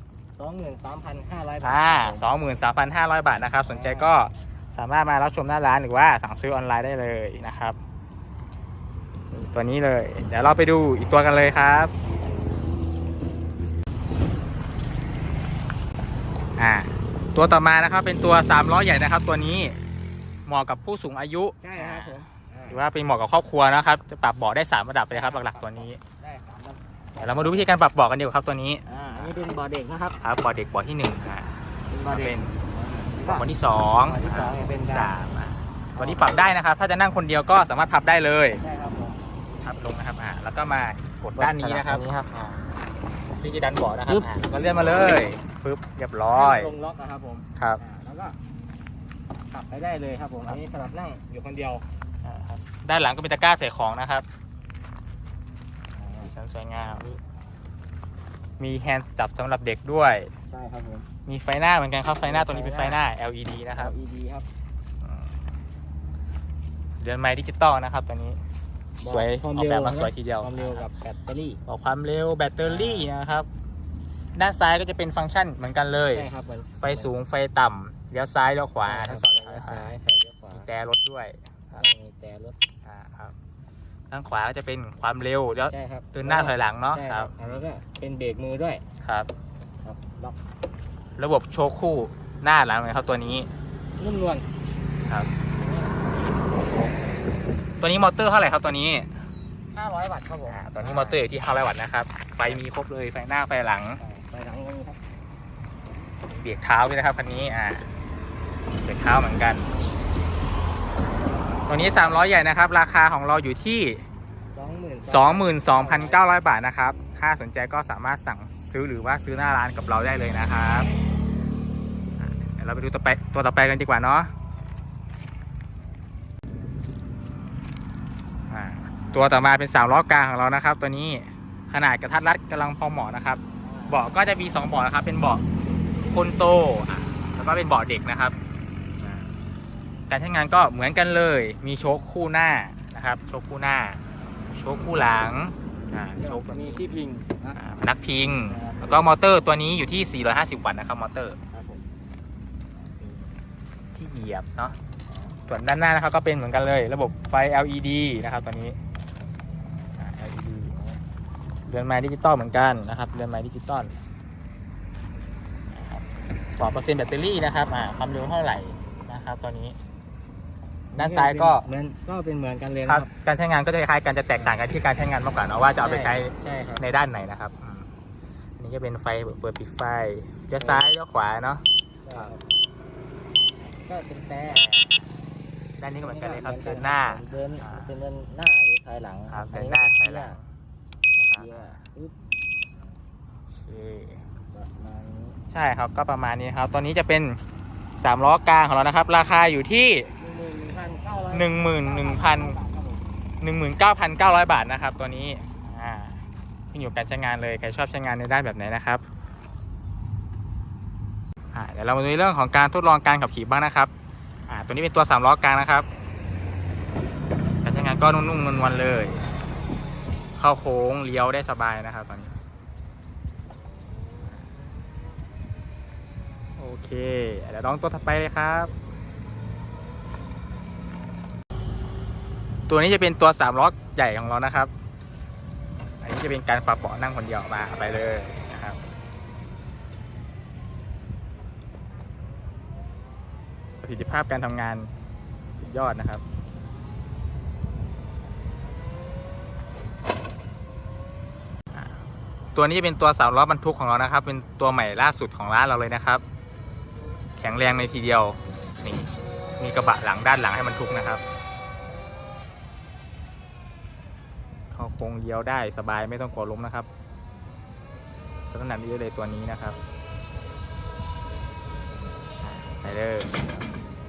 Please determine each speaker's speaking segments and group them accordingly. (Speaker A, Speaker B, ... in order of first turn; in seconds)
Speaker A: 0.3-2.3, 3.7-4.1, 21.6-22.8, 25.1-27.7, 28.9-30.2, 31.9-33.5, 34.0-35.1, 35.9-36.6, 38.6-39.2, 41.4-42.7, 46.2-48.4, 49.5-51.9, 55.9-56.3, 56.8-57.2, 60.5-61.1, 62.2-63.0, 63.7-64.5, 69.0-71.6, 72.6-73.1, 76.1-77.1, 78.8-80.7, 81.8-82.6, 85.7-88.8, 89.8-90.4, 94.0-94.5, 95.6-96.2, 99.7-101.2, 104.0-105.0, 114.5-116.2, 133.6-134.1, 146.2-147.6, 148.5-149.1, 151.5-151.9, 152.8-153.4, 160.7-161.0, 170.9-173.1, 175.8-176.8, 180.6-180.9, 182.1-182.4, 183.9-184.7, 186.0-190.4, 191.3-192.1, 194.5-195.4, 200.2-203.1
Speaker B: 1.6-7.8, 9.3-11.9, 16.6-19.8, 20.5-26.0, 27.2-29.4, 30.1-31.5, 32.1-32.6, 33.2-38.6, 39.6-42.0, 43.3-46.8, 52.2-54.2, 56.1-57.1, 58.6-60.3, 61.2-63.9, 65.0-65.5, 67.0-68.4, 69.0-70.9, 71.7-73.5, 74.3-79.9, 80.5-81.9, 82.8-83.4, 84.1-87.6, 89.0-89.3, 91.2-93.5, 96.5-96.9, 97.8-99.1, 100.5-104.0, 106.3-107.9, 108.8-109.7, 111.7-114.0, 115.1-120.9, 122.2-124.3, 128.5-135.4, 136.0-138.4, 140.1-146.9, 147.6-151.4, 153.9-154.8, 155.5-158.8, 160.0-160.7, 161.7-163.9, 165.7-166.1, 166.6-169.8, 170.9-171.7, 172.8-177.9, 178.6-182.3, 184.5-185.1, 185.8-187.9, 189.3-190.4, 191.2-191.8, 193.5-194.2, 195.5-197.4, 198.0-200.1, 201.3-202.6, 203.4-209.0, 211.5-213.9, 214.5-215.9, 217.6-219.2, 220.4-222.4, 226.6-228.7, 232.7-234.7, 236.0-238.8, 243.8-244.9, 245.6-246.2, 252.6-256.2, 257.4-261.2, 264.7-266.9, 268.5-269.8, 272.6-273.5